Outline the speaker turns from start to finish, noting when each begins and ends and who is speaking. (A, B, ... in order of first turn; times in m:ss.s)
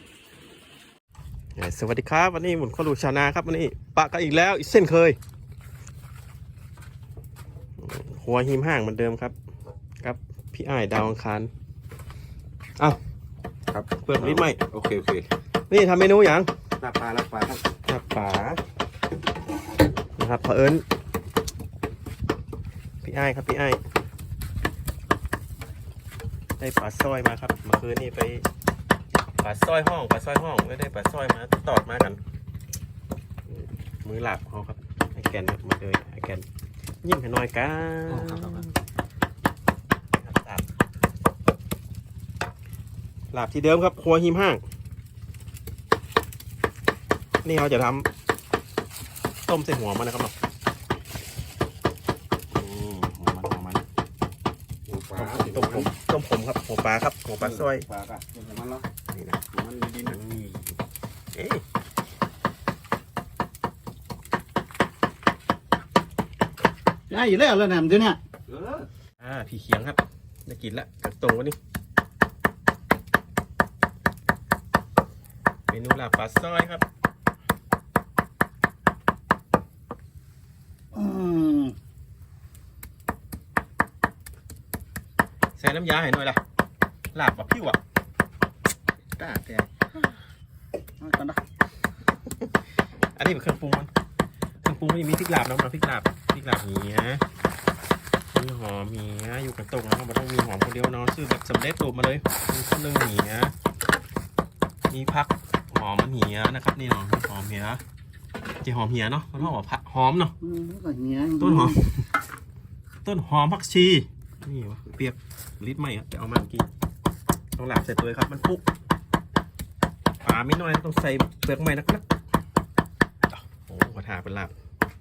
0:01.6-0:05.2 A
0:07.8-0:09.4 A
0:10.0-0:11.5 A
0:13.7-0:15.3 B
0:13.9-0:14.6 A
0:15.7-0:16.5 A
0:16.8-0:17.6 B
0:17.7-0:18.6 A
0:20.2-0:20.8 A
0:23.0-0:23.8 A
0:26.6-0:28.5 A
0:29.4-0:32.2 A
0:33.5-0:36.4 A
0:37.0-0:38.8 A
0:38.1-0:38.7 B
0:40.2-0:40.7 A
0:43.3-0:44.6 A
0:47.4-0:48.1 A
0:49.5-0:50.3 A
0:52.5-0:53.8 A
0:54.9-0:56.0 B
0:55.2-0:57.9 A
0:57.4-0:58.8 B
0:59.1-0:59.4 A
0:59.5-1:00.2 B
1:00.0-1:00.8 A
1:01.3-1:01.6 A
1:07.1-1:08.2 C
1:08.5-1:08.9 B
1:09.2-1:11.6 A
1:15.7-1:16.8 A
1:20.9-1:21.8 C
1:25.6-1:26.4 A
1:27.1-1:27.8 A
1:29.2-1:29.7 C
1:31.0-1:31.4 C
1:33.2-1:33.9 A
1:34.6-1:37.2 A
1:38.3-1:43.5 A
1:44.9-1:47.8 A
1:48.6-1:50.3 A
1:50.4-1:51.8 C
1:51.4-1:52.1 A
1:53.0-1:56.7 A
1:57.6-1:58.6 A
2:00.2-2:02.1 A
2:03.3-2:04.5 A